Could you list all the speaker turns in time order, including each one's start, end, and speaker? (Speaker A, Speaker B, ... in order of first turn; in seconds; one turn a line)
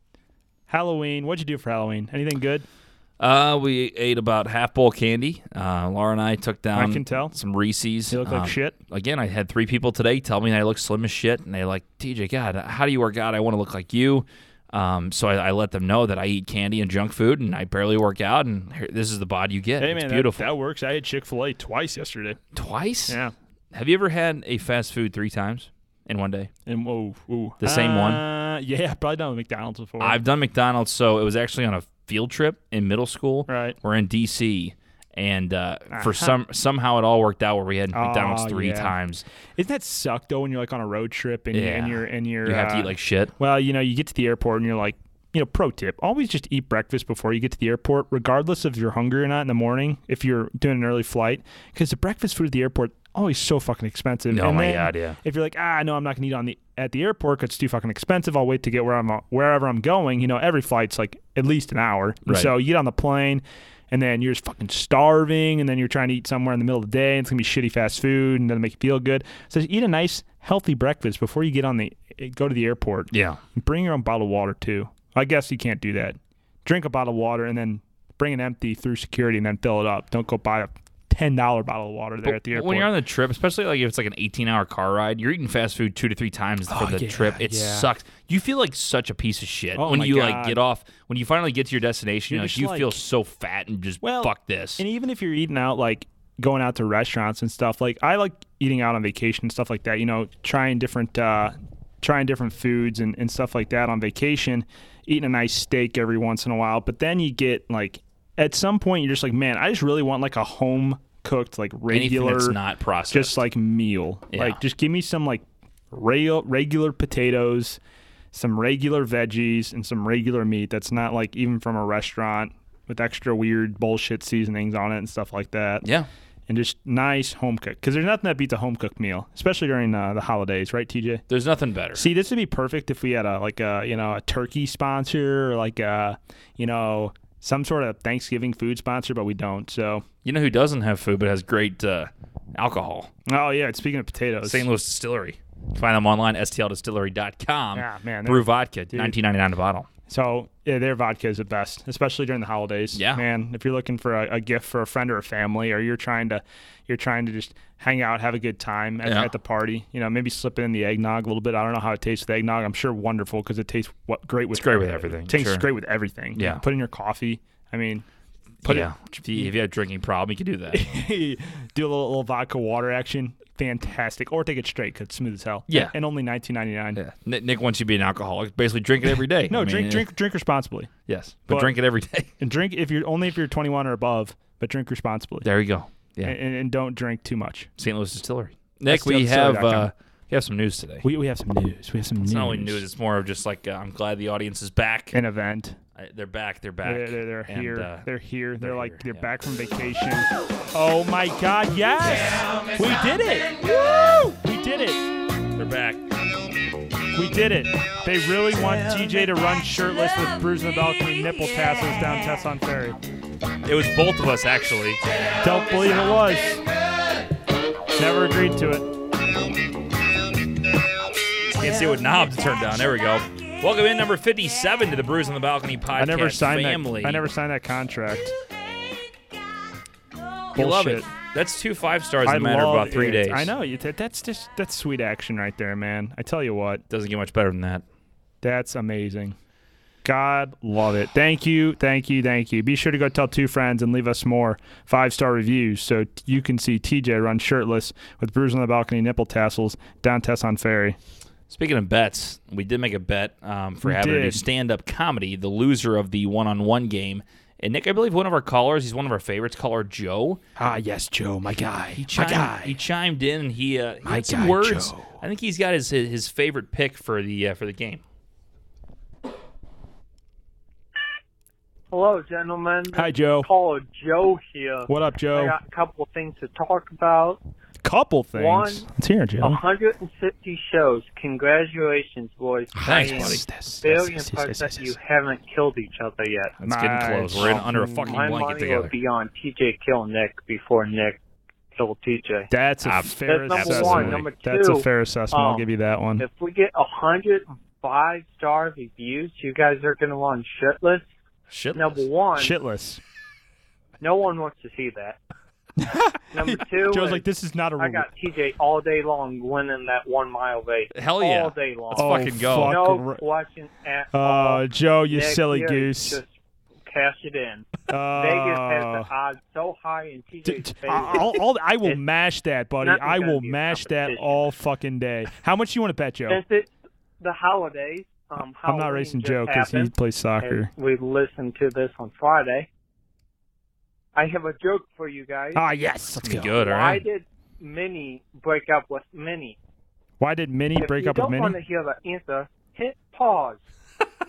Speaker A: 0.7-2.6
Speaker B: 3.2-20.5
Speaker A: 6.7-7.3
Speaker A: 8.1-8.8
Speaker A: 19.8-22.4
Speaker B: 22.5-23.2
Speaker A: 23.1-23.3
Speaker B: 23.7-26.5
Speaker A: 26.7-30.2
Speaker B: 27.6-28.2
Speaker B: 30.0-39.2
Speaker A: 33.5-33.8
Speaker A: 35.9-36.4
Speaker A: 37.9-38.9
Speaker A: 39.6-82.9
Speaker B: 41.5-43.3
Speaker B: 54.3-55.2
Speaker B: 62.2-62.5
Speaker B: 73.1-73.4
Speaker B: 82.2-94.8
Speaker A: 86.7-87.9
Speaker A: 89.8-90.6
Speaker A: 92.3-93.0
Speaker A: 94.0-112.6
Speaker B: 111.9-113.4
Speaker A: 113.1-117.8
Speaker B: 114.3-114.6
Speaker A: 118.3-125.8
Speaker B: 125.8-126.1
Speaker A: 126.5-131.2
Speaker B: 131.3-132.0
Speaker A: 131.9-140.0
Speaker B: 140.2-143.1
Speaker A: 143.3-144.7
Speaker B: 144.4-149.9
Speaker A: 147.8-149.2
Speaker A: 150.1-168.0
Speaker B: 152.9-153.2
Speaker B: 159.0-159.3
Speaker B: 164.5-165.7
Speaker B: 166.3-166.6
Speaker A: 168.6-169.5
Speaker B: 168.6-171.0
Speaker A: 170.7-177.0
Speaker B: 175.7-175.9
Speaker B: 176.9-180.1
Speaker A: 179.5-180.9
Speaker B: 181.1-182.3
Speaker A: 181.5-181.7
Speaker A: 182.4-185.5
Speaker B: 185.4-186.3
Speaker A: 186.2-187.7
Speaker B: 187.8-191.1
Speaker A: 188.9-189.9
Speaker A: 191.0-192.8
Speaker B: 192.2-195.2
Speaker A: 195.1-195.8
Speaker B: 195.9-198.1
Speaker A: 196.8-205.0
Speaker B: 198.6-199.3
Speaker B: 205.6-206.0
Speaker A: 207.1-213.0
Speaker B: 213.6-215.0
Speaker A: 215.4-216.6
Speaker A: 217.9-218.9
Speaker B: 221.6-227.2
Speaker A: 225.9-228.3
Speaker A: 230.5-231.1
Speaker B: 230.5-233.5
Speaker A: 232.2-236.8
Speaker B: 236.9-237.8
Speaker A: 238.4-239.4
Speaker A: 240.0-251.0
Speaker B: 251.5-260.4
Speaker A: 253.8-254.4
Speaker A: 260.6-262.8
Speaker B: 261.9-268.0
Speaker A: 264.0-265.2
Speaker C: 271.9-277.4
Speaker A: 272.9-273.5
Speaker A: 274.9-275.6
Speaker A: 277.8-279.6
Speaker C: 278.4-278.9
Speaker C: 279.4-286.6
Speaker A: 282.7-284.9
Speaker B: 282.8-283.4
Speaker B: 286.6-288.9
Speaker A: 286.6-288.2
Speaker C: 287.4-291.2
Speaker C: 291.8-292.5
Speaker A: 292.5-296.2
Speaker B: 292.8-294.2
Speaker C: 293.3-295.7
Speaker C: 296.2-301.0
Speaker B: 301.5-302.0
Speaker C: 301.7-302.6
Speaker A: 302.4-303.0
Speaker C: 304.0-305.2
Speaker A: 305.8-308.1
Speaker C: 306.3-307.2
Speaker C: 307.8-316.3
Speaker B: 310.9-312.8
Speaker A: 311.9-313.2
Speaker A: 314.1-316.2
Speaker C: 316.8-322.0
Speaker A: 317.9-319.1
Speaker A: 320.4-326.4
Speaker C: 322.8-324.5
Speaker C: 326.3-332.7
Speaker A: 328.6-330.7
Speaker C: 334.1-335.6
Speaker A: 335.5-336.5
Speaker B: 336.2-337.0
Speaker C: 336.5-339.6
Speaker A: 340.2-341.6
Speaker C: 340.8-343.6